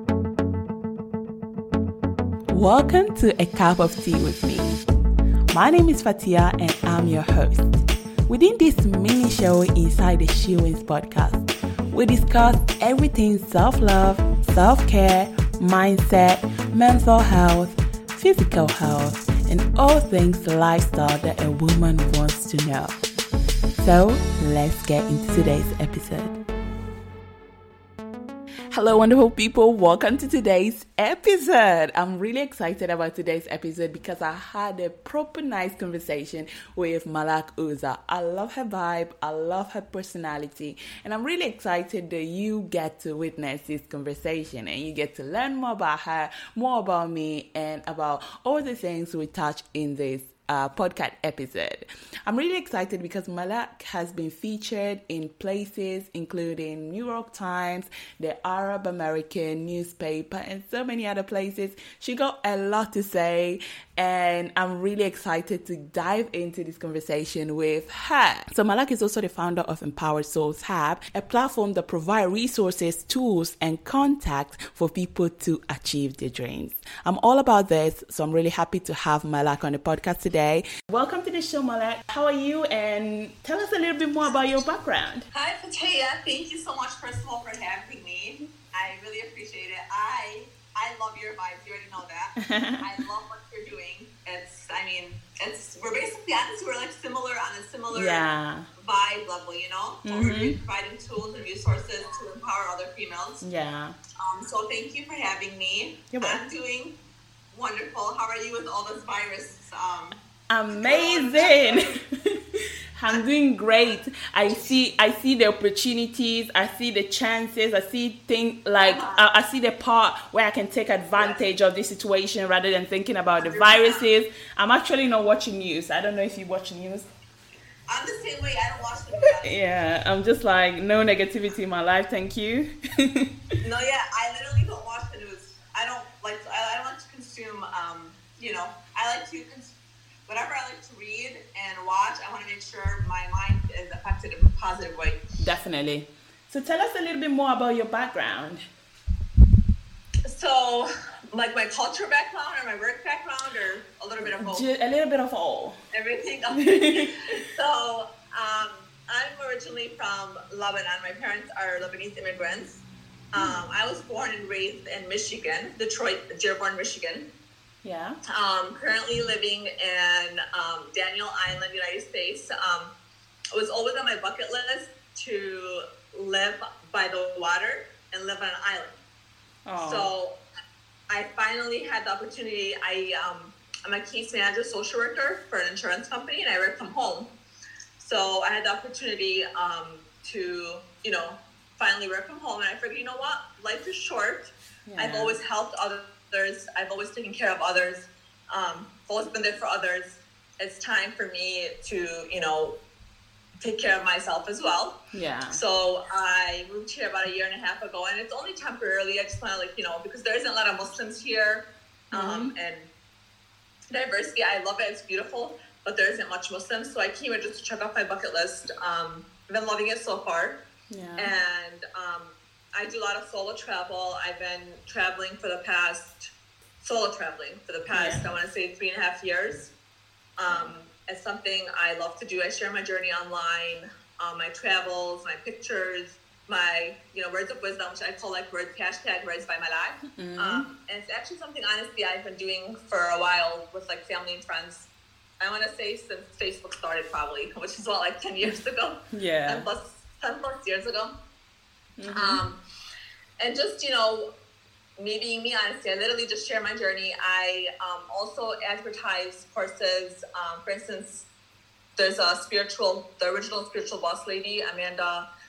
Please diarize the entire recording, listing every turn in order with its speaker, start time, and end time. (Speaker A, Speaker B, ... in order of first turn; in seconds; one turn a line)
Speaker A: 2.5-4.8
Speaker A: 5.5-23.0
Speaker A: 23.8-26.4
Speaker A: 28.7-85.3
Speaker B: 85.3-98.2
Speaker A: 92.5-92.8
Speaker A: 97.9-98.7
Speaker B: 98.8-103.4
Speaker A: 100.0-100.5
Speaker A: 103.4-104.0
Speaker B: 104.2-107.0
Speaker A: 106.1-106.4
Speaker B: 107.5-110.2
Speaker A: 110.5-112.3
Speaker B: 110.7-111.9
Speaker A: 113.0-127.1
Speaker B: 118.8-119.2
Speaker B: 123.4-124.0
Speaker B: 127.9-129.5
Speaker A: 129.4-133.3
Speaker B: 133.6-139.7
Speaker B: 140.3-145.2
Speaker A: 145.4-148.6
Speaker B: 150.3-154.7
Speaker A: 154.2-155.8
Speaker B: 155.9-167.3
Speaker A: 156.6-157.2
Speaker A: 163.4-163.7
Speaker A: 167.8-168.2
Speaker B: 168.3-172.9
Speaker B: 173.5-179.0
Speaker A: 179.7-180.1
Speaker B: 179.8-180.3
Speaker B: 181.1-187.3
Speaker B: 188.0-202.8
Speaker A: 194.9-195.3
Speaker B: 203.6-204.9
Speaker A: 205.1-205.6
Speaker B: 205.5-212.9
Speaker A: 212.1-212.5
Speaker B: 213.9-220.6
Speaker A: 220.9-221.3
Speaker B: 221.2-229.7
Speaker A: 227.9-228.3
Speaker B: 230.4-244.9
Speaker A: 230.5-230.7
Speaker A: 240.2-240.7
Speaker B: 245.4-251.1
Speaker A: 249.1-249.7
Speaker A: 252.0-252.4
Speaker B: 252.1-252.6
Speaker B: 253.4-254.2
Speaker B: 255.0-261.2
Speaker B: 262.0-265.2